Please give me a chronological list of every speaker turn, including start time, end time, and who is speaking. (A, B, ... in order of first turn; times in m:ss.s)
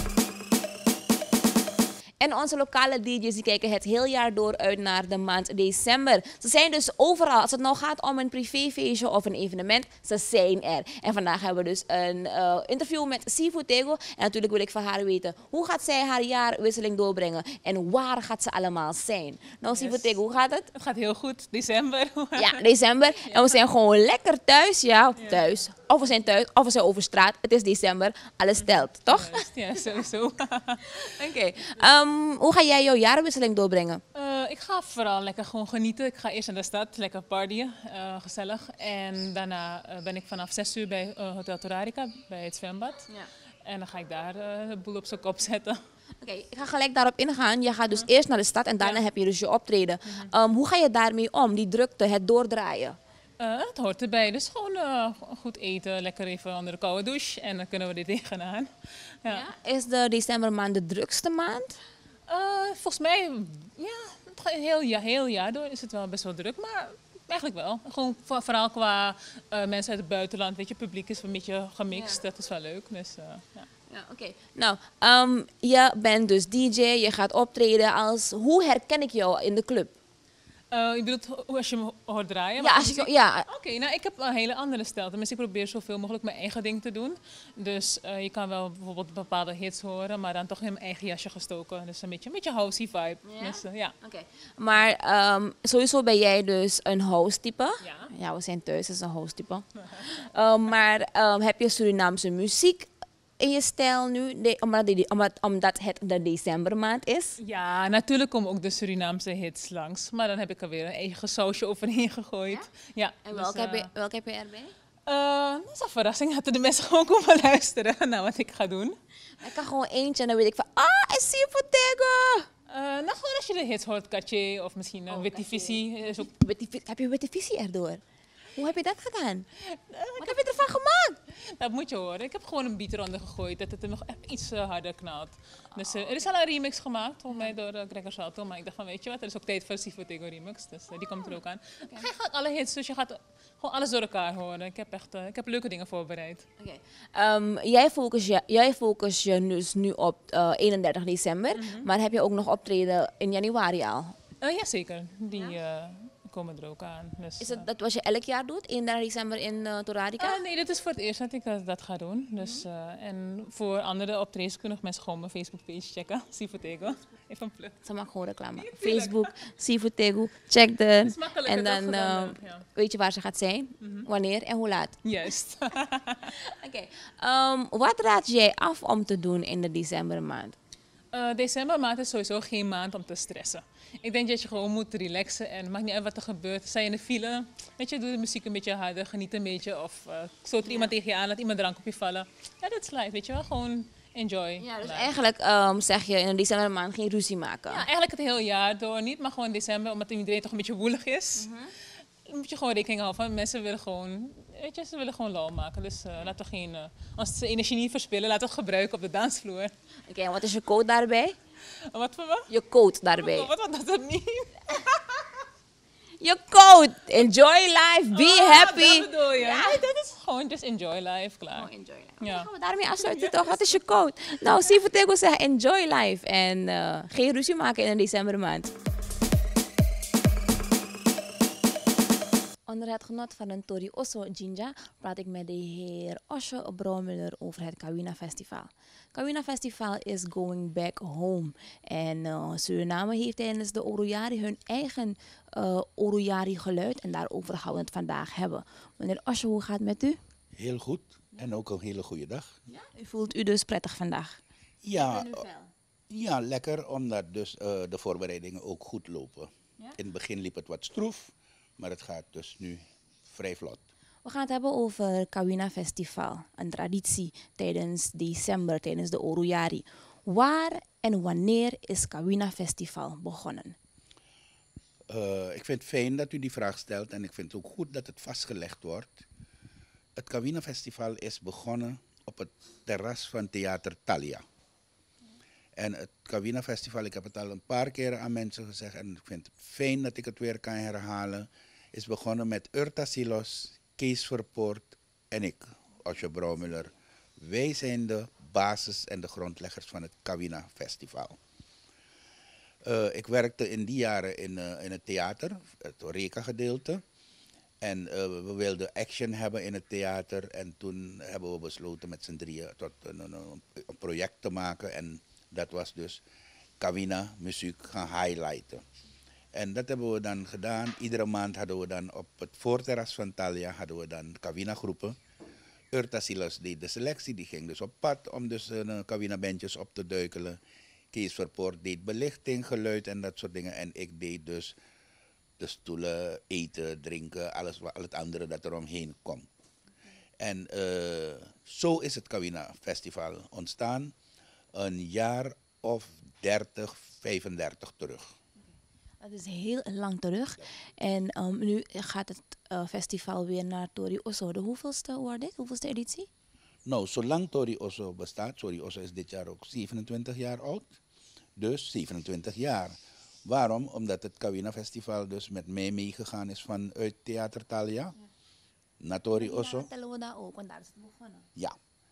0:02.2-0:20.7 A
0:19.7-0:20.2 B
0:20.7-0:22.6 B
0:22.4-0:29.4 A
0:23.2-0:23.6 B
0:25.2-0:25.5 B
0:28.6-0:31.1 B
0:30.9-0:34.0 A
0:34.2-0:43.1 B
0:43.6-0:45.8 B
0:46.2-0:53.0 A
0:53.4-0:58.7 B
0:59.3-1:01.8 A
1:02.3-1:13.7 B
1:11.9-1:12.2 A
1:13.9-1:20.0 A
1:20.7-1:33.9 B
1:22.6-1:23.5 A
1:33.2-1:47.4 A
1:37.8-1:38.1 B
1:47.4-1:53.9 B
1:53.3-1:54.7 A
1:55.1-1:59.0 B
1:59.4-2:02.5 A
2:02.7-2:06.3 B
2:05.1-2:08.0 A
2:08.6-2:09.5 A
2:09.7-2:10.7 B
2:10.2-2:11.2 A
2:11.3-2:26.4 B
2:26.6-2:34.2 A
2:31.5-2:31.9 B
2:34.4-2:37.6 B
2:37.4-2:40.4 A
2:40.2-2:47.8 B
2:47.8-2:55.0 A
2:48.6-2:49.3 B
2:51.0-2:52.7 B
2:53.8-2:54.1 B
2:55.0-2:56.3 B
2:56.2-3:00.6 A
3:01.1-3:15.1 B
3:10.6-3:10.9 A
3:14.6-3:17.8 A
3:17.7-3:21.5 B
3:21.4-3:21.7 A
3:22.2-3:29.7 B
3:30.1-3:31.4 A
3:31.9-3:32.5 B
3:32.5-3:33.5 A
3:33.1-3:35.4 B
3:36.2-3:39.8 A
3:38.1-3:41.7 B
3:41.5-3:48.7 A
3:42.2-3:43.8 B
3:52.7-4:10.2 A
4:10.6-4:12.6 C
4:12.7-4:14.4 A
4:14.8-4:15.5 C
4:15.0-4:15.7 A
4:16.1-4:23.9 C
4:24.2-4:33.8 A
4:35.1-4:39.2 C
4:40.2-4:44.4 C
4:45.8-5:01.4 C
5:02.8-5:07.0 C
5:07.8-5:16.2 C
5:16.8-5:18.8 C
5:19.5-5:25.2 C
5:25.9-5:30.6 C
5:31.1-5:34.8 C
5:35.6-5:39.5 C
5:40.4-5:44.1 C
5:44.7-5:48.3 C
5:49.2-5:56.3 A
5:56.9-6:01.0 C
6:01.6-6:08.2 C
6:09.0-6:09.9 C
6:09.3-6:11.5 A